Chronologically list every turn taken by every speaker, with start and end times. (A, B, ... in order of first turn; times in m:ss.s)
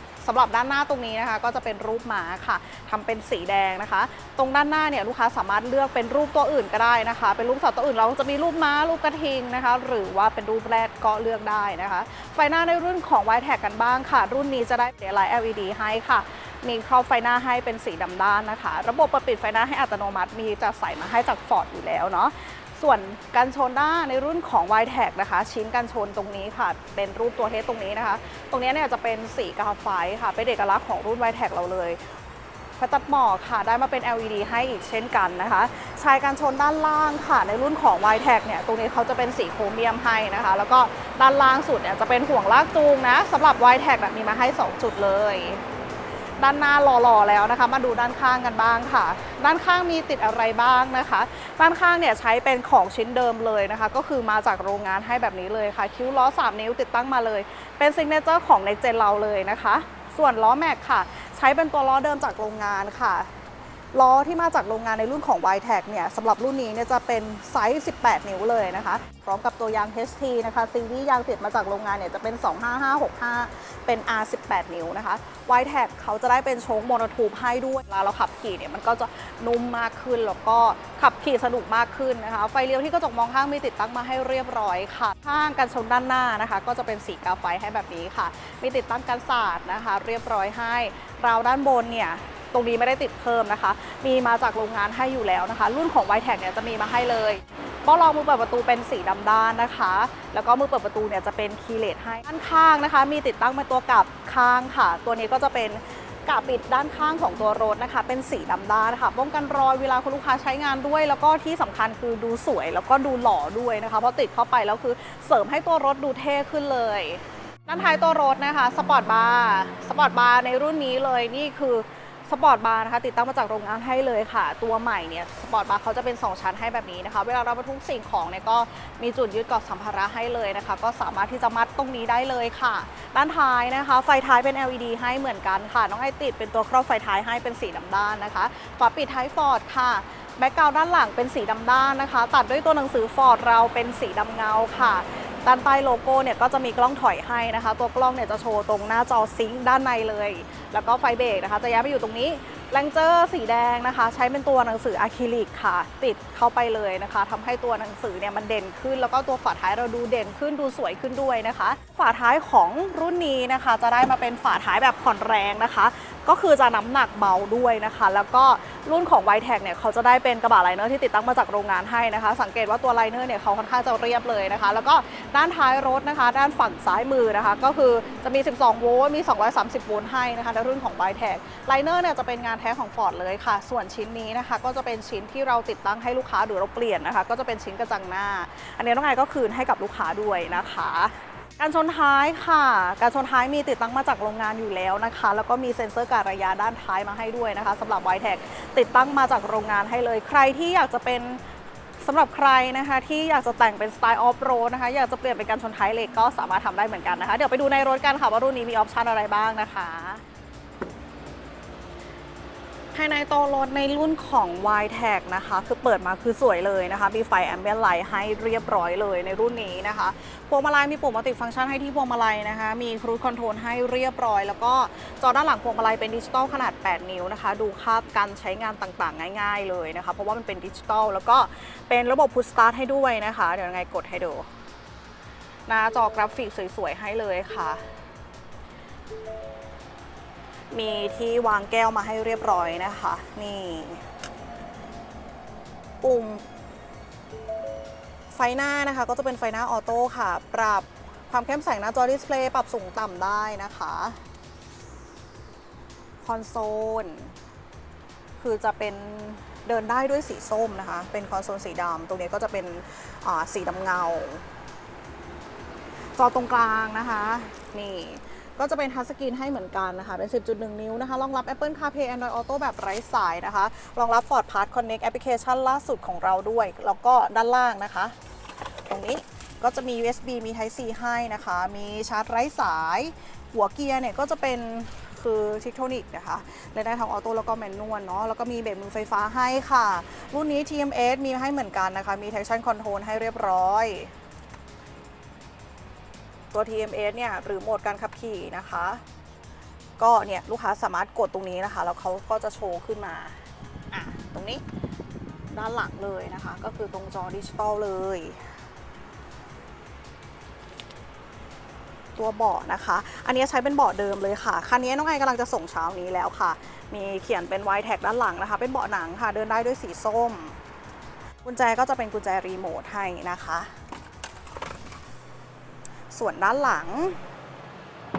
0:00.2-0:32.0 A
0:32.8-0:45.6 A
0:46.4-1:03.3 A
1:03.9-3:21.4 A
3:22.0-3:30.2 A
3:32.9-3:54.5 A
3:55.7-3:57.8 A
4:00.7-4:04.0 A
4:06.0-4:06.4 A
4:08.3-4:14.2 A
4:16.2-4:17.3 A
4:18.4-4:24.4 A
4:26.2-4:38.1 A
4:38.9-4:54.1 A
4:56.5-4:59.0 A
5:00.0-5:04.6 A
5:05.5-5:08.4 A
5:12.2-5:20.6 A
5:21.4-5:23.7 A
5:26.1-5:27.2 A